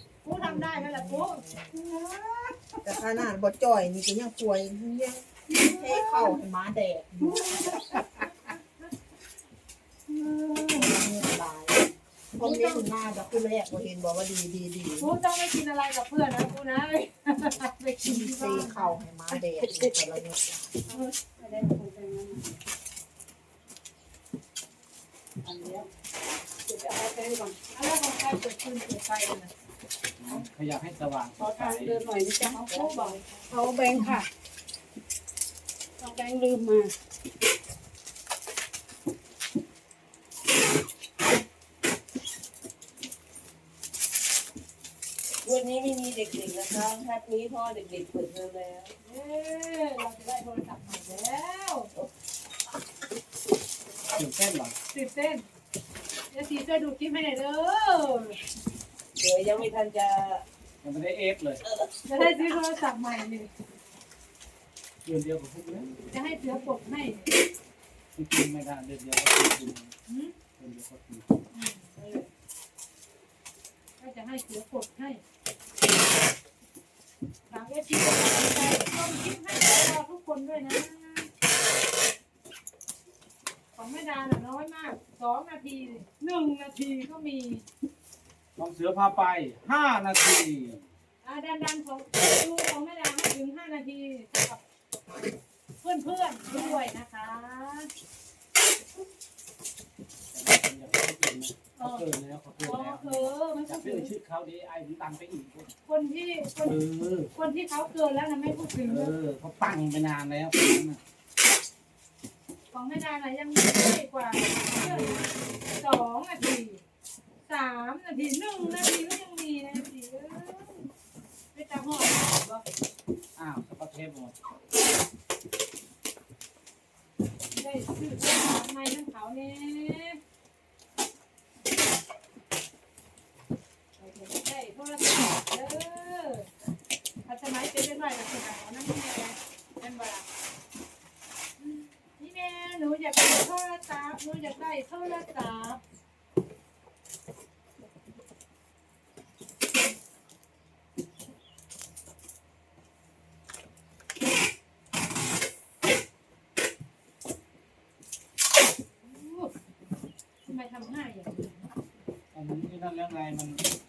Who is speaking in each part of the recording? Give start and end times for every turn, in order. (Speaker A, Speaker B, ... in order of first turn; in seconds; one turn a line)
Speaker A: 0.2-1.4
Speaker B: 0.4-1.8
Speaker C: 1.7-2.8
Speaker B: 2.8-7.5
Speaker A: 5.5-6.4
Speaker A: 7.4-8.5
Speaker C: 7.5-8.3
Speaker C: 10.1-10.9
Speaker B: 10.7-15.1
Speaker A: 12.4-12.9
Speaker A: 15.0-19.0
Speaker B: 18.0-20.5
Speaker D: 20.9-22.5
Speaker D: 25.4-25.9
Speaker D: 26.6-27.6
Speaker A: 27.7-29.5
Speaker C: 30.2-32.0
Speaker D: 31.4-34.2
Speaker A: 32.4-34.2
Speaker D: 36.0-36.9
Speaker E: 45.4-48.9
Speaker A: 49.0-51.9
Speaker C: 54.1-54.7
Speaker A: 54.9-55.5
Speaker A: 56.3-58.4
Speaker E: 59.2-60.4
Speaker C: 60.8-61.6
Speaker E: 61.7-62.5
Speaker A: 62.0-63.5
Speaker C: 65.0-65.9
Speaker A: 66.1-67.2
Speaker C: 68.2-69.9
Speaker A: 70.1-70.3
Speaker C: 70.6-71.3
Speaker A: 71.5-71.9
Speaker E: 72.0-72.2
Speaker A: 74.0-75.2
Speaker A: 77.5-81.3
Speaker A: 83.7-87.6
Speaker C: 88.6-90.8
Speaker A: 91.2-94.6
Speaker A: 95.8-97.9
Speaker C: 100.3-105.7
Speaker A: 101.8-102.1
Speaker A: 102.6-104.1
Speaker A: 105.8-106.8
Speaker C: 106.6-107.3
Speaker A: 107.3-109.1
Speaker C: 108.8-111.0
Speaker A: 112.7-116.8
Speaker C: 114.7-115.2
Speaker A: 117.5-120.9
Speaker A: 121.5-122.6
Speaker C: 123.3-124.3
Speaker A: 127.5-130.2
Speaker A: 134.0-136.5
Speaker A: 137.2-140.2
Speaker A: 141.6-145.8
Speaker A: 159.0-159.5
Speaker A: 160.5-161.7
Speaker C: 162.3-163.6